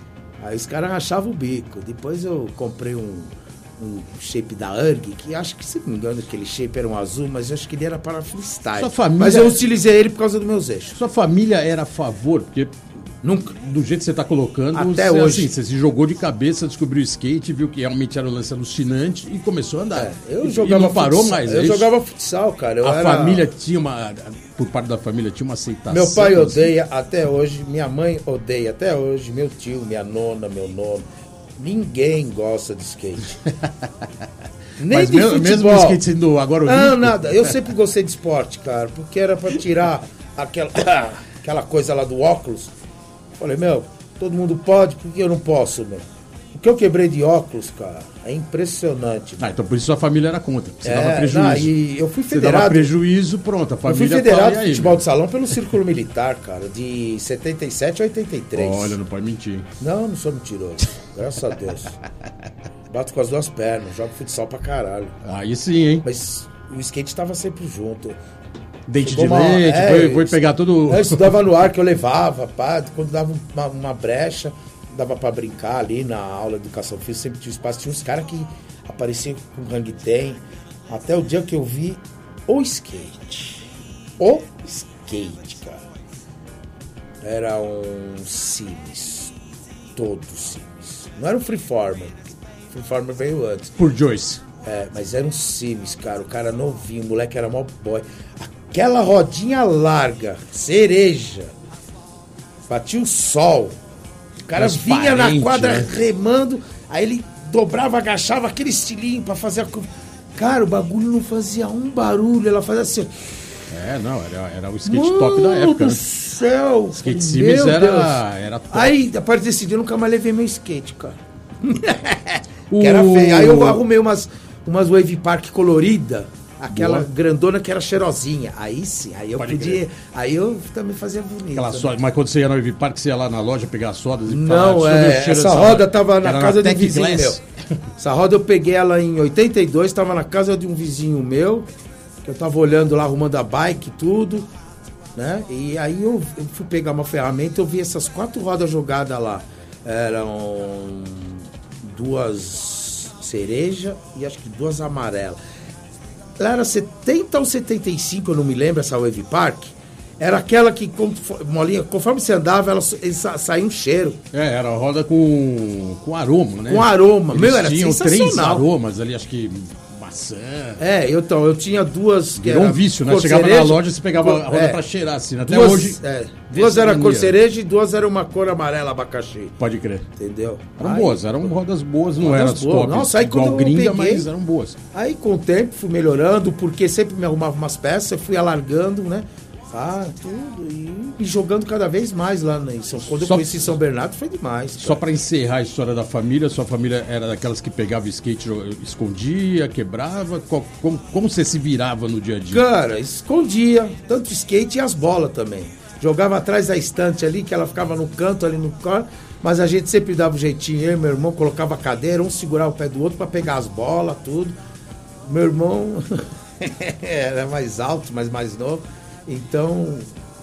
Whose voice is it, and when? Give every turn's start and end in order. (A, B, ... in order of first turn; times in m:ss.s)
0:00.4-0:11.0 A
0:08.8-0:09.6 B
0:11.0-0:12.8 B
0:13.2-0:13.5 A
0:13.5-0:21.9 B
0:14.7-0:15.5 A
0:20.0-0:23.5 A
0:22.8-0:26.7 B
0:25.9-0:31.0 A
0:31.6-0:33.4 A
0:34.8-0:36.0 A
0:34.9-0:37.5 B
0:36.7-0:42.7 A
0:43.4-0:49.4 A
0:49.4-0:51.7 B
0:50.8-0:52.9 A
0:52.3-0:55.0 B
0:53.9-0:59.0 A
0:58.6-0:59.7 B
0:59.8-1:01.9 A
1:02.9-1:05.2 A
1:05.2-1:06.1 B
1:06.0-1:08.2 A
1:08.9-1:11.4 B
1:09.0-1:23.6 A
1:24.2-1:25.8 A
1:27.2-1:29.3 A
1:30.0-1:33.7 A
1:33.8-1:34.4 B
1:34.6-1:41.5 A
1:42.7-1:43.8 A
1:44.5-1:53.6 A
1:44.5-1:45.9 B
1:53.7-1:56.0 B
1:54.9-2:11.9 A
1:56.9-1:58.9 B
2:02.7-2:03.8 B
2:06.7-2:07.1 B
2:09.4-2:09.8 B
2:11.5-2:17.5 B
2:14.3-2:17.4 A
2:18.0-2:21.7 A
2:22.2-2:24.5 A
2:25.2-2:35.4 A
2:36.4-2:44.2 A
2:44.3-2:50.8 B
2:46.7-2:48.7 A
2:50.8-2:54.8 A
2:52.4-2:57.4 B
2:55.5-2:59.6 A
2:59.6-3:00.1 B
3:00.2-3:01.4 A
3:00.8-3:04.8 B
3:02.2-3:04.3 A
3:04.9-3:15.0 A
3:13.2-3:13.8 B
3:14.8-3:22.6 B
3:22.5-3:34.6 A
3:35.2-3:40.1 A